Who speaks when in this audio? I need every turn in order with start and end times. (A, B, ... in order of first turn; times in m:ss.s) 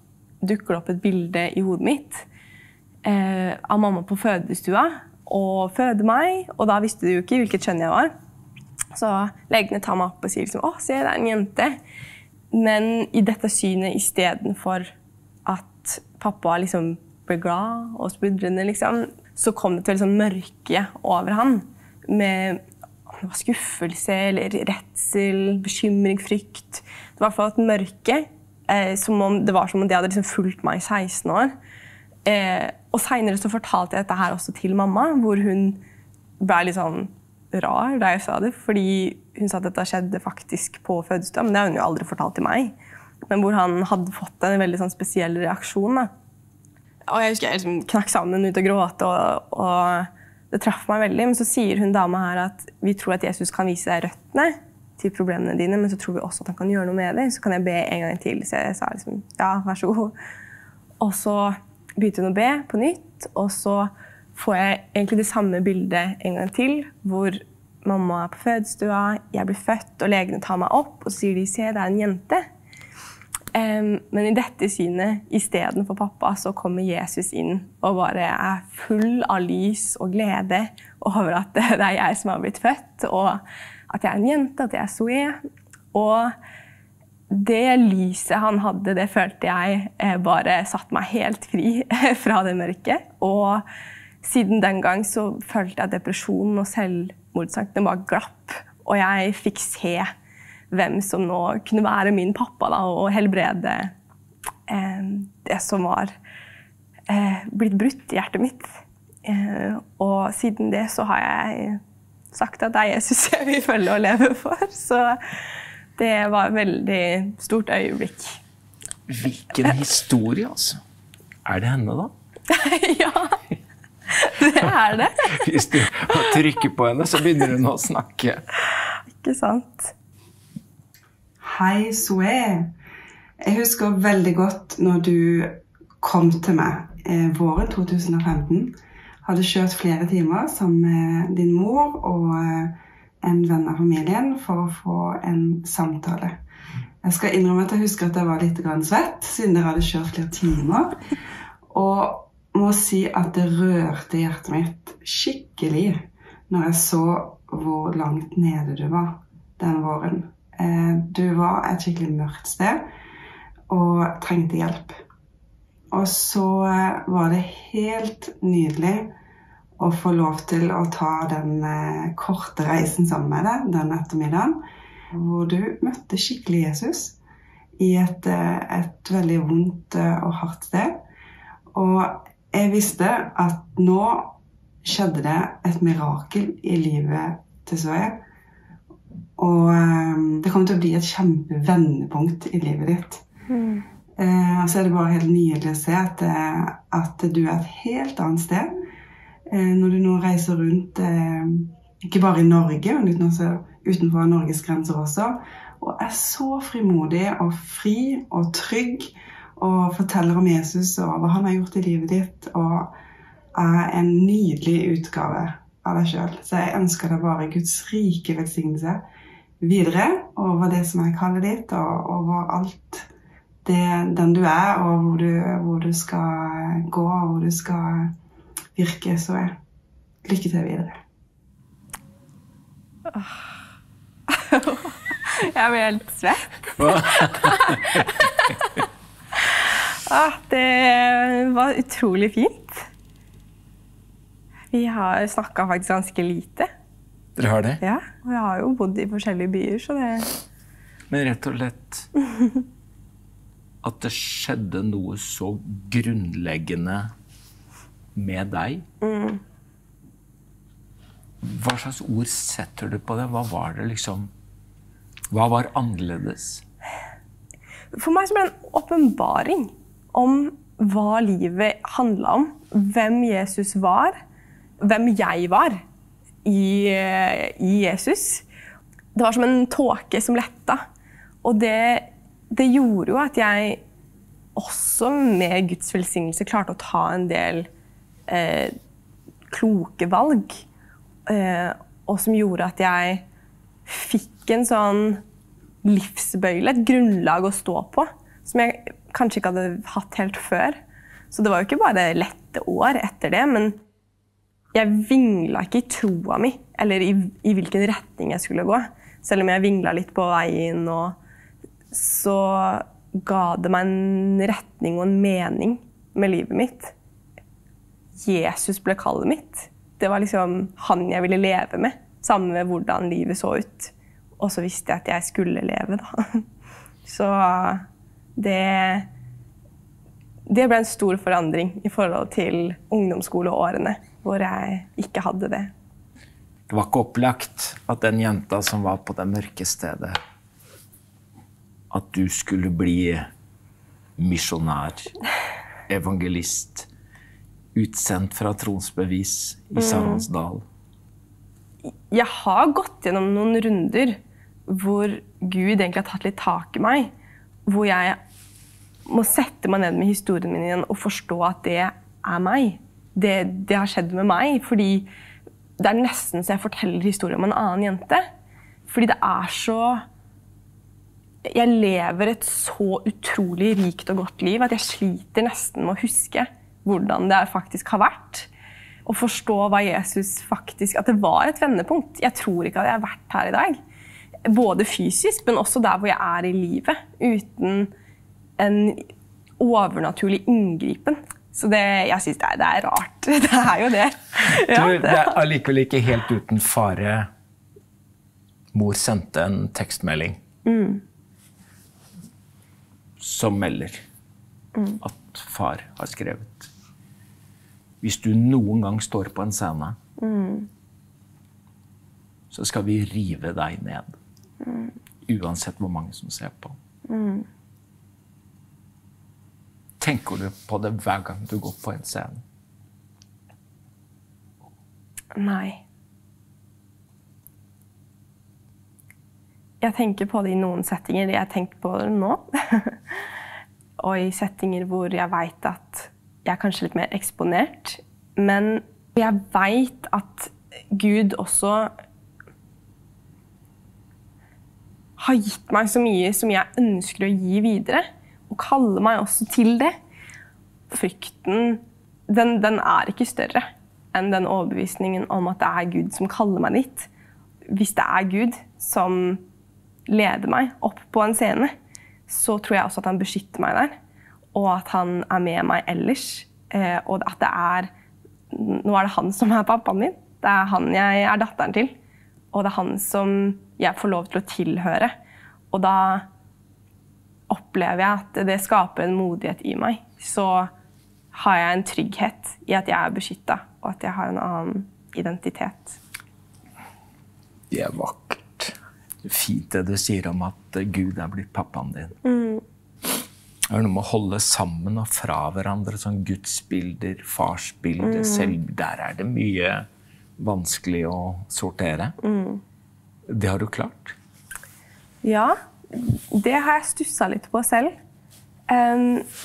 0:00.4-0:02.2 A
0:03.0-0:08.1 A
0:08.9-0:11.8 A
0:12.5-0:14.9 A
0:15.4-0:31.5 A
0:32.2-0:35.8 A
0:36.4-0:42.7 A
0:43.3-0:46.1 A
0:47.1-1:00.1 A
1:01.0-1:12.4 A
1:13.5-1:25.4 A
1:25.9-1:26.3 A
1:27.3-1:33.6 A
1:34.2-1:40.1 A
1:40.7-1:43.9 A
1:44.7-1:46.1 A
1:47.1-1:48.7 A
1:49.2-1:51.8 A
1:52.3-1:55.3 A
1:56.0-1:58.4 A
1:59.1-2:00.8 B
2:01.4-2:02.1 B
2:02.5-2:03.4 A
2:04.1-2:05.4 A
2:05.3-2:08.4 B
2:09.1-2:09.9 A
2:11.4-2:12.7 C
2:13.4-2:26.4 C
2:27.0-2:31.0 C
2:31.7-2:42.9 C
2:43.7-2:45.0 C
2:45.9-2:49.1 C
2:49.8-2:57.2 C
2:57.8-3:01.0 C
3:01.7-3:08.2 C
3:09.4-3:13.2 C
3:13.5-3:13.8 A
3:14.2-3:18.7 C
3:19.5-3:32.9 C
3:33.5-3:39.0 C
3:39.6-3:43.1 C
3:43.6-3:48.1 C
3:48.8-3:49.6 C
3:50.2-3:51.0 C
3:54.3-3:58.7 A
3:56.8-3:58.1 B
3:59.5-4:02.9 A
4:04.7-4:06.7 A
4:07.4-4:07.8 B
4:07.8-4:10.3 A
4:11.1-4:12.1 B
4:13.8-4:17.1 B
4:18.1-4:18.8 B
4:19.0-4:19.4 A
4:21.4-4:24.3 B
4:25.3-4:26.6 B
4:27.9-4:34.2 A
4:34.8-4:35.8 A
4:36.4-4:38.4 A
4:39.1-4:40.8 A
4:41.4-4:43.8 A
4:44.6-4:47.7 A
4:48.3-4:48.7 A
4:49.5-4:50.6 A
4:51.3-4:53.2 A
4:53.9-4:55.2 A
4:55.8-5:00.8 A
5:01.3-5:03.8 A
5:04.7-5:11.2 A
5:11.9-5:16.9 A
5:18.2-5:26.4 A
5:27.0-5:27.8 A
5:28.4-5:29.1 A
5:30.5-5:35.7 A
5:36.7-5:40.2 B
5:41.9-5:43.3 B
5:44.2-5:45.1 B
5:45.9-5:46.9 B
5:47.7-5:50.6 B
5:49.8-5:50.2 A
5:52.1-5:57.1 A
5:57.7-5:58.2 A
5:59.1-6:05.1 A
6:05.8-6:08.2 A
6:08.9-6:10.0 A
6:11.4-6:18.5 A
6:19.0-6:23.8 A
6:24.4-6:27.9 A
6:28.6-6:29.1 A
6:29.6-6:35.4 A
6:34.6-6:37.3 B
6:38.7-6:40.4 B
6:40.6-6:41.0 A
6:43.2-6:44.0 B
6:45.0-6:46.7 B
6:48.0-6:50.0 B
6:50.2-6:50.7 A
6:52.5-6:54.2 B
6:54.6-6:54.9 A
6:55.2-6:56.8 B
6:57.1-6:57.4 A
7:00.0-7:02.4 B
7:05.3-7:05.8 A
7:09.8-7:13.2 A
7:14.0-7:21.9 A
7:25.2-7:29.9 A
7:30.9-7:37.1 A
7:37.7-7:39.4 A
7:40.1-7:41.7 A
7:42.3-7:43.9 A
7:44.5-7:47.9 A
7:48.5-7:51.9 A
7:52.5-7:55.2 A
7:55.7-7:56.3 A
7:57.5-8:00.7 A
8:01.3-8:06.0 A
8:07.7-8:12.2 B
8:12.2-8:12.6 A
8:13.7-8:19.9 B
8:18.0-8:18.5 A
8:20.4-8:22.2 B
8:22.2-8:22.6 A
8:23.3-8:24.2 B
8:25.2-8:27.9 A
8:28.7-8:29.2 A